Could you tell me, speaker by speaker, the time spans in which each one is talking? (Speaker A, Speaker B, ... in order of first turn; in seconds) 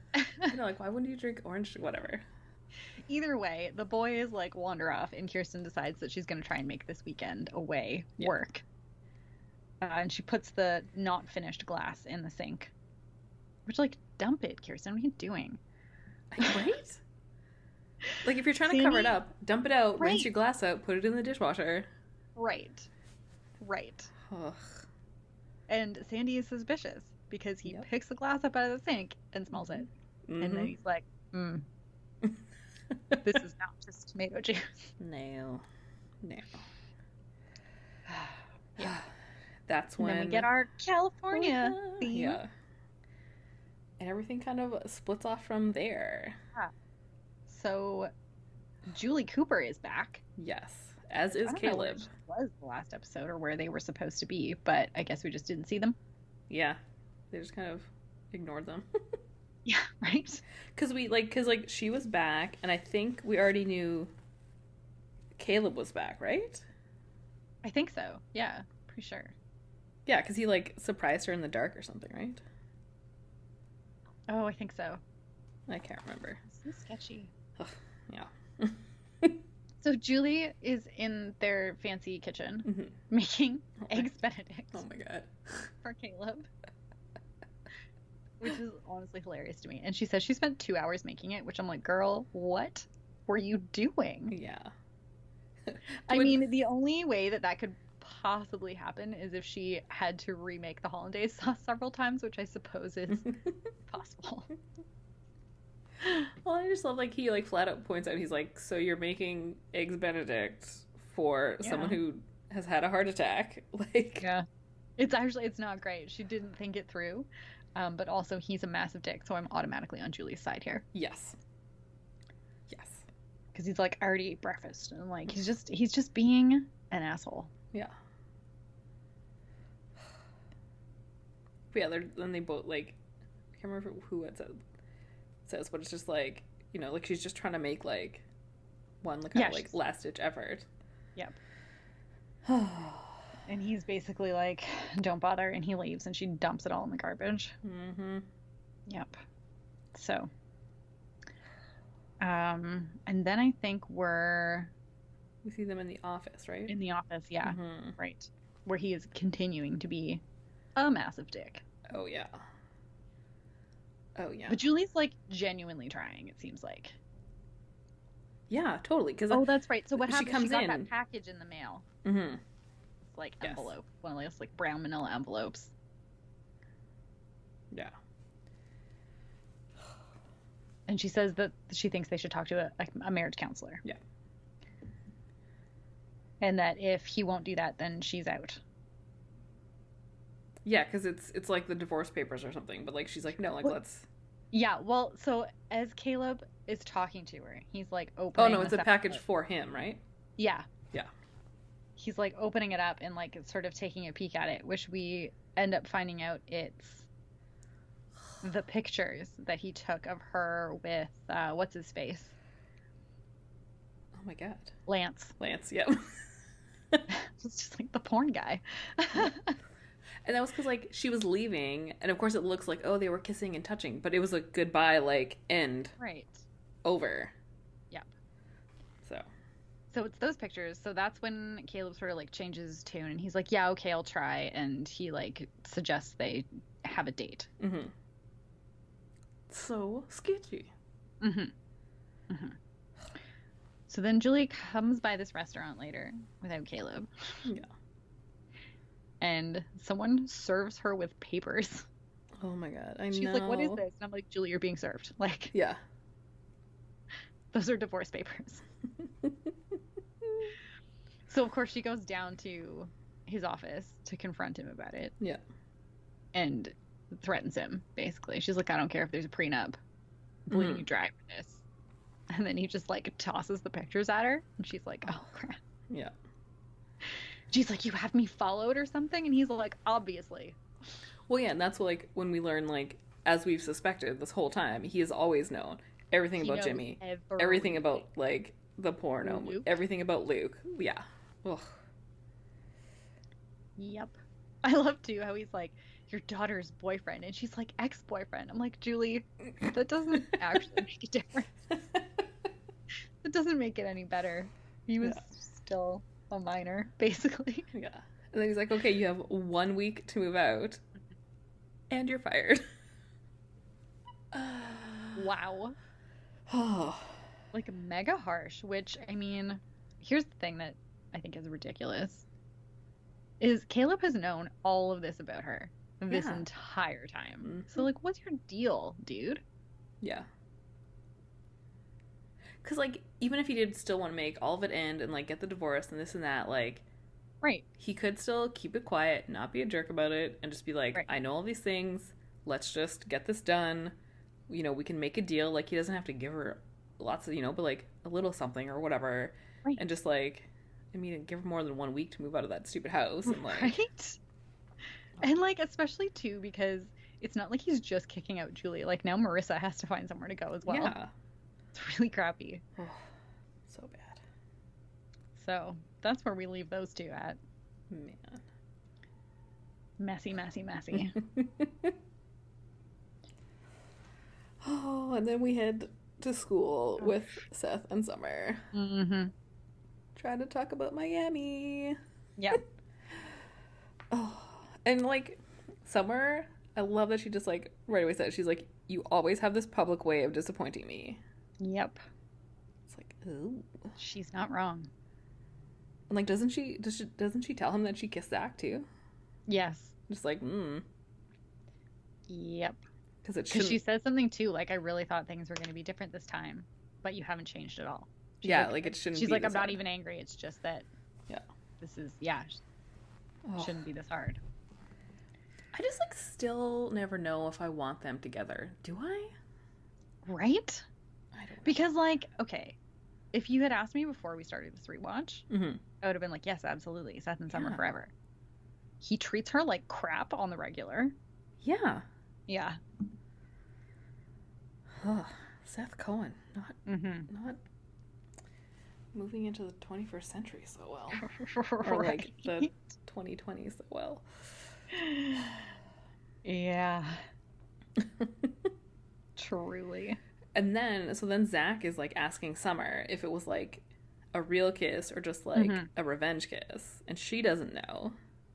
Speaker A: 0.4-2.3, 16.3-17.0, 18.2-21.9, 24.3-24.8, 30.3-30.7, 32.9-33.2, 35.0-35.6, 36.2-36.7, 38.8-39.1, 39.7-40.5, 41.3-42.5, 44.0-46.4, 50.4-52.1, 56.5-56.8, 57.3-58.9, 60.8-64.1, 65.4-66.7, 70.1-72.4, 75.7-76.4, 77.6-79.4, 82.7-83.0, 83.8-84.1, 84.7-85.7, 94.3-94.7, 95.7-96.4, 106.0-114.3, 120.9-121.4, 122.7-123.1, 131.7-133.0, 133.6-134.6, 135.4-138.3, 139.0-140.7, 142.4-143.2, 147.6-148.3, 155.4-156.8, 157.4-158.0, 161.9-162.4, 164.2-164.6, 168.5-169.5, 170.0-170.9, 172.0-172.4, 173.4-173.7, 190.7-194.1, 198.4-200.0, 214.2-214.8, 215.4-216.3, 220.2-225.9, 226.8-227.3, 229.0-229.3, 237.6-237.9, 239.5-240.7, 247.4-247.7, 252.4-253.8, 255.5-255.8, 270.5-270.9, 275.9-276.1, 281.3-291.7, 307.7-310.8, 311.9-312.6, 314.3-315.3, 316.5-317.2, 326.1-326.5, 327.4-327.9, 330.0-330.3, 332.6-336.9, 337.8-344.0, 344.5-353.8, 360.7-361.1, 362.8-363.1, 363.7-364.2, 367.9-368.4, 371.1-371.9, 374.6-378.7, 380.2-382.0, 384.1-391.2, 392.9-393.9, 396.1-398.9, 400.1-400.9, 403.2-403.8, 408.4-409.8, 413.5-413.8, 415.7-419.3, 421.3-421.9, 425.5-425.8, 427.5-427.8, 431.6-432.1, 435.0-437.6, 439.1-441.3, 441.8-444.7, 448.0-448.7, 450.6-458.2
Speaker B: 3.1-8.6, 9.8-12.7, 13.7-15.6, 18.7-19.2, 20.0-20.3, 22.4-22.9, 23.6-24.1, 25.7-31.6, 33.2-34.9, 38.1-39.0, 40.0-42.4, 47.5-48.1, 48.9-50.2, 51.3-56.0, 59.7-60.4, 67.6-69.3, 74.3-75.0, 76.5-77.3, 79.8-84.8, 85.8-86.5, 88.4-94.4, 96.1-104.5, 111.6-112.0, 115.0-120.8, 123.5-127.5, 139.3-139.8, 143.5-147.6, 148.9-149.1, 149.9-150.3, 152.2-154.7, 156.7-160.2, 160.8-161.6, 164.5-167.0, 169.3-171.9, 173.1-175.7, 180.9-183.8, 186.4-188.6, 194.5-199.2, 200.4-200.7, 202.0-207.1, 208.4-212.3, 214.9-215.3, 217.1-219.6, 226.0-226.4, 229.9-237.5, 241.2-241.5, 242.3-242.6, 243.9-247.5, 249.2-251.9, 253.1-255.5, 257.5-258.6, 261.3-265.1, 266.3-269.8, 270.5-271.6, 272.3-275.6, 277.5-280.6, 286.4-288.0, 289.2-289.7, 293.8-301.5, 303.2-307.7, 315.2-315.8, 317.5-322.3, 323.4-329.4, 353.3-354.2, 355.2-361.0, 361.7-362.6, 365.4-367.4, 370.0-371.2, 378.7-379.3, 391.6-392.0, 394.0-394.9, 399.5-399.9, 402.3-402.8, 403.5-410.9, 411.8-412.6, 413.6-414.4, 420.2-420.9, 421.6-422.8, 423.3-425.5, 426.0-428.1, 429.0-431.1, 432.5-432.8, 436.9-437.3, 441.1-442.7, 444.9-445.5, 446.4-447.2, 449.4-450.2, 455.6-455.9